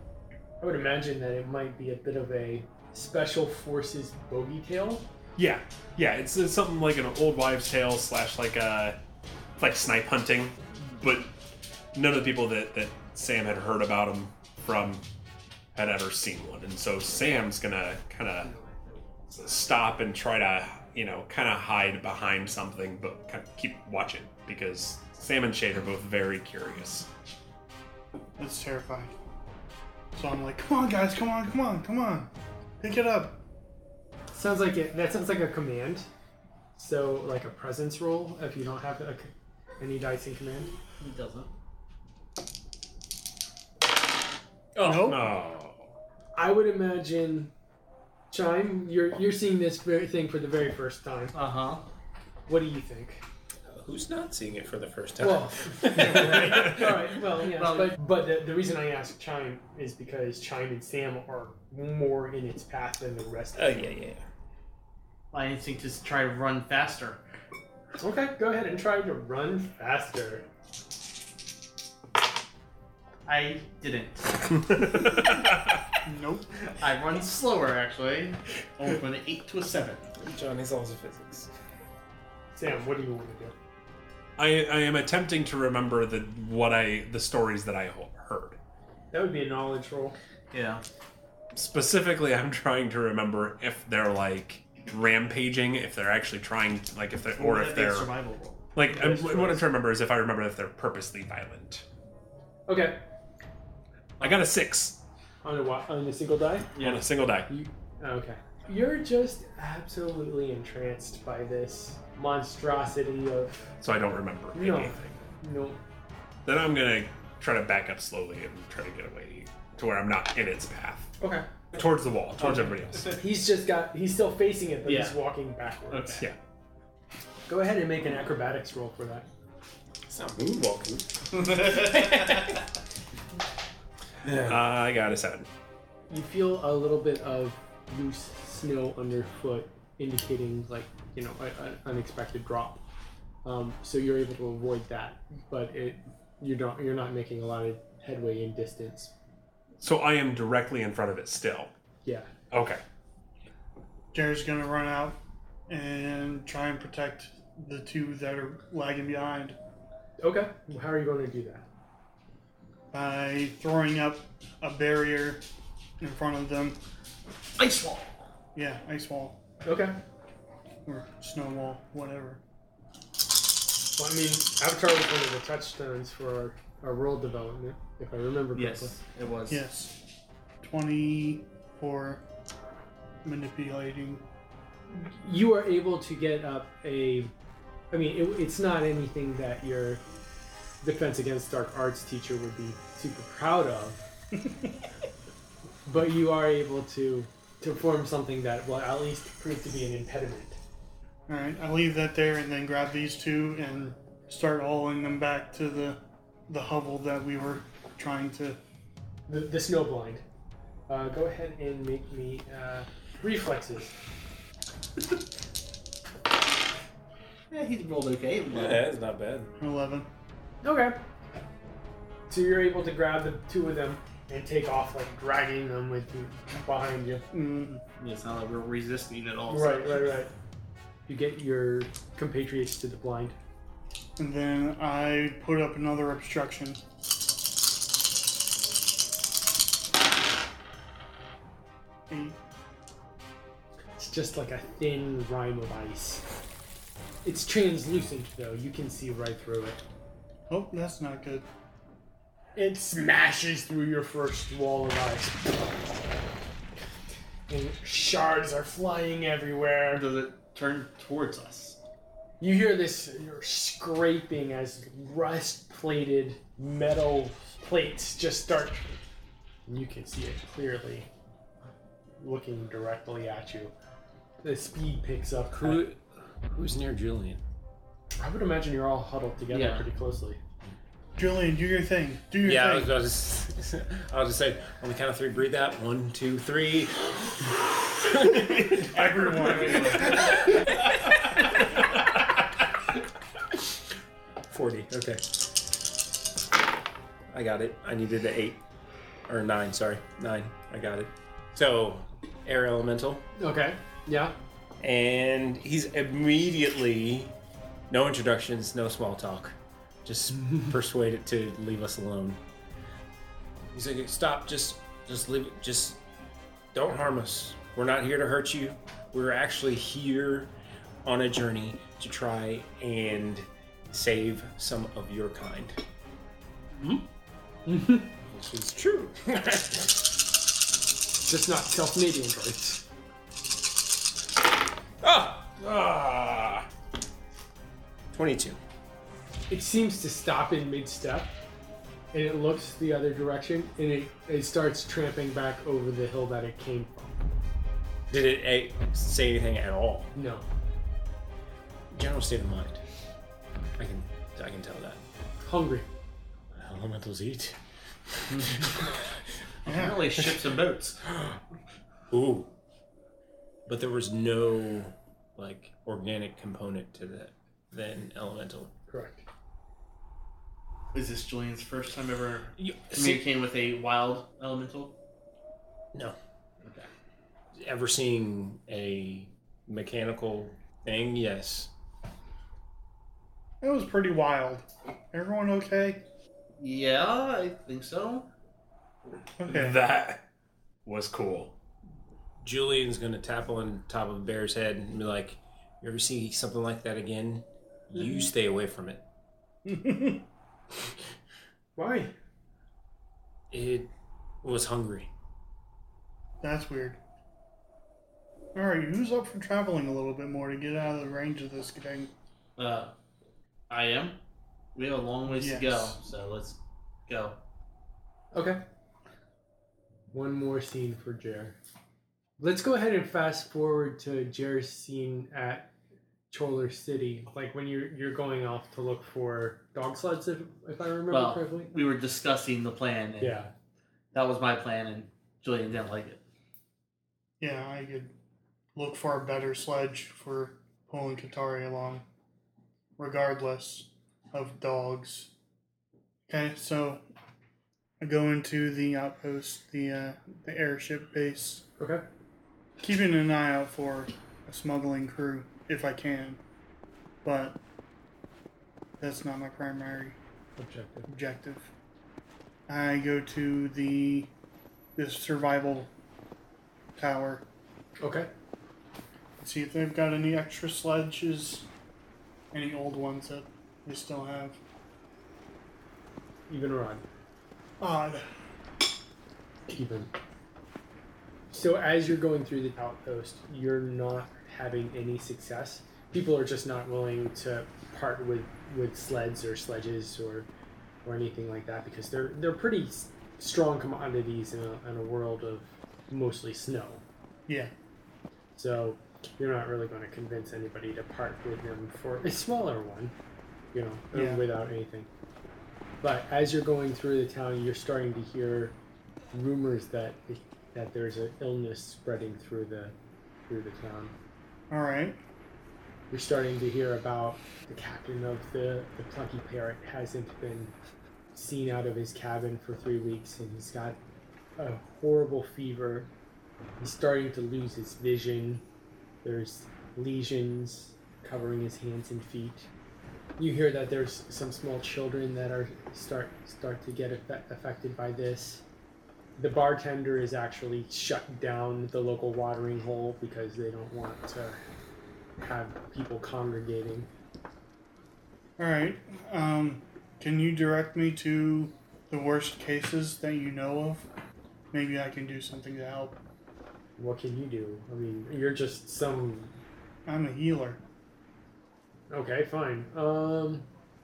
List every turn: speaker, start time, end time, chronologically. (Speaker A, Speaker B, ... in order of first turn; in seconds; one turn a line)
Speaker A: 0.6-5.1
Speaker B: 5.4-9.0
Speaker B: 9.6-11.3
Speaker B: 11.9-15.0
Speaker B: 15.7-18.5
Speaker C: 18.4-18.7
Speaker B: 19.3-27.1
Speaker D: 28.4-29.1
Speaker D: 30.1-33.4
Speaker A: 34.3-36.1
Speaker A: 36.8-40.7
Speaker C: 41.0-41.5
Speaker E: 44.7-45.2
Speaker D: 44.8-45.4
Speaker B: 44.8-45.9
Speaker A: 46.3-47.5
Speaker A: 48.3-51.3
Speaker C: 51.3-51.8
Speaker A: 52.5-53.2
Speaker E: 53.7-56.7
Speaker A: 55.2-63.9
Speaker C: 57.5-58.0
Speaker E: 63.5-64.2
Speaker C: 65.3-67.2
Speaker A: 68.0-70.5
Speaker C: 73.2-75.1
Speaker D: 76.0-76.5
Speaker C: 76.8-80.0
Speaker E: 80.2-81.5
Speaker A: 82.5-83.5
Speaker B: 84.4-88.6
Speaker A: 89.1-90.2
Speaker C: 90.5-90.8
Speaker B: 91.5-98.1
Speaker C: 97.3-98.7
Speaker B: 98.7-101.8
Speaker A: 98.9-99.6
Speaker A: 102.7-103.0
Speaker B: 104.2-105.0
Speaker A: 105.4-106.7
Speaker C: 106.7-107.1
Speaker B: 106.8-107.5
Speaker A: 107.5-113.7
Speaker B: 113.8-115.2
Speaker A: 114.5-115.8
Speaker B: 116.4-121.1
Speaker C: 121.2-121.7
Speaker B: 121.7-123.1
Speaker C: 122.4-122.7
Speaker A: 123.1-126.3
Speaker C: 124.8-125.2
Speaker C: 125.9-126.2
Speaker A: 127.5-129.3
Speaker E: 130.1-132.4
Speaker C: 131.5-132.1
Speaker E: 134.3-134.5
Speaker B: 134.3-135.5
Speaker A: 136.1-142.8
Speaker A: 143.4-149.1
Speaker B: 149.8-151.7
Speaker A: 152.0-152.3
Speaker B: 152.5-152.8
Speaker D: 154.1-159.6
Speaker A: 160.2-161.6
Speaker D: 162.9-165.4
Speaker D: 166.0-166.8
Speaker C: 167.6-168.1
Speaker D: 168.5-169.4
Speaker A: 169.6-170.0
Speaker D: 170.8-172.4
Speaker A: 174.0-179.0
Speaker C: 178.5-179.6
Speaker D: 179.5-180.0
Speaker D: 180.6-182.2
Speaker D: 183.2-184.2
Speaker A: 184.9-187.3
Speaker A: 187.9-190.0
Speaker A: 190.8-194.0
Speaker A: 195.8-200.6
Speaker D: 201.3-208.6
Speaker A: 209.3-210.2
Speaker A: 210.9-213.9
Speaker C: 217.5-218.8
Speaker E: 218.5-219.5
Speaker D: 219.6-220.1
Speaker A: 220.6-221.0
Speaker A: 222.3-227.2
Speaker D: 227.3-227.8
Speaker C: 228.0-230.2
Speaker A: 229.5-230.3
Speaker A: 231.1-233.3
Speaker D: 234.2-236.8
Speaker D: 242.1-242.4
Speaker A: 244.0-246.3
Speaker A: 247.2-249.8
Speaker D: 250.5-251.5
Speaker A: 252.6-255.5
Speaker A: 257.5-260.1
Speaker C: 259.9-261.8
Speaker A: 262.4-269.0
Speaker A: 269.7-271.1
Speaker A: 272.2-273.7
Speaker A: 274.4-275.9
Speaker E: 275.6-277.4
Speaker A: 278.2-280.4
Speaker C: 279.5-279.9
Speaker D: 281.2-282.9
Speaker E: 282.4-288.9
Speaker D: 288.7-290.3
Speaker C: 289.3-290.4
Speaker E: 294.5-295.2
Speaker E: 297.3-298.6
Speaker E: 299.2-303.2
Speaker A: 303.4-304.4
Speaker E: 304.8-307.3
Speaker E: 307.9-312.4
Speaker E: 313.7-316.0
Speaker E: 316.7-320.5
Speaker E: 321.0-325.8
Speaker A: 327.6-328.1
Speaker E: 328.2-329.9
Speaker A: 331.3-332.8
Speaker E: 335.0-336.6
Speaker E: 338.1-338.6
Speaker A: 339.5-341.3
Speaker A: 342.1-347.1
Speaker E: 348.1-350.1
Speaker A: 350.1-350.5
Speaker E: 351.9-352.8
Speaker E: 353.8-355.0
Speaker A: 355.4-355.9
Speaker E: 356.5-357.6
Speaker C: 359.6-361.0
Speaker D: 359.6-360.3
Speaker E: 362.1-362.5
Speaker E: 363.6-368.7
Speaker A: 368.9-369.2
Speaker C: 370.9-374.9
Speaker E: 372.6-373.2
Speaker C: 376.6-376.9
Speaker E: 377.5-381.7
Speaker D: 383.6-386.0
Speaker C: 386.6-388.3
Speaker D: 389.4-389.8
Speaker B: 389.5-390.2
Speaker B: 390.8-391.5
Speaker E: 392.4-399.0
Speaker D: 399.6-400.2
Speaker A: 401.8-402.1
Speaker E: 403.5-403.9
Speaker E: 404.4-405.1
Speaker D: 406.4-407.0
Speaker D: 408.5-412.1
Speaker C: 412.6-412.9
Speaker C: 413.7-414.2
Speaker C: 414.7-417.4
Speaker D: 415.2-416.0
Speaker A: 418.3-418.6
Speaker A: 420.1-421.6
Speaker A: 422.4-425.7
Speaker A: 426.3-431.7
Speaker C: 431.1-433.4
Speaker A: 433.2-433.5
Speaker C: 434.1-436.2
Speaker D: 437.4-438.1
Speaker D: 438.7-442.0
Speaker D: 443.0-445.3
Speaker D: 446.3-447.0
Speaker D: 448.0-451.6
Speaker A: 451.8-452.0
Speaker D: 452.8-456.4
Speaker D: 457.2-457.6
Speaker D: 459.0-460.1
Speaker A: 460.6-461.1
Speaker D: 461.1-461.7
Speaker D: 462.7-464.3
Speaker D: 464.9-465.9
Speaker D: 466.9-467.4
Speaker A: 468.0-468.3
Speaker D: 469.4-471.7
Speaker D: 472.5-474.6
Speaker A: 476.5-477.0
Speaker D: 477.8-478.3
Speaker A: 479.7-480.1
Speaker A: 481.5-490.5
Speaker A: 491.0-497.0
Speaker A: 498.5-503.1
Speaker A: 503.7-505.1
Speaker D: 504.1-504.4
Speaker A: 506.0-508.8
Speaker A: 509.3-512.9
Speaker A: 513.5-514.1
Speaker D: 514.7-515.2
Speaker A: 516.1-520.7
Speaker A: 521.3-524.0
Speaker A: 524.6-526.1
Speaker A: 526.8-528.6
Speaker A: 529.2-532.7
Speaker A: 533.4-538.6
Speaker A: 539.4-544.6
Speaker A: 545.4-547.1
Speaker D: 548.6-554.1
Speaker D: 554.7-556.2
Speaker A: 557.0-559.5
Speaker D: 560.0-560.8
Speaker A: 562.1-563.7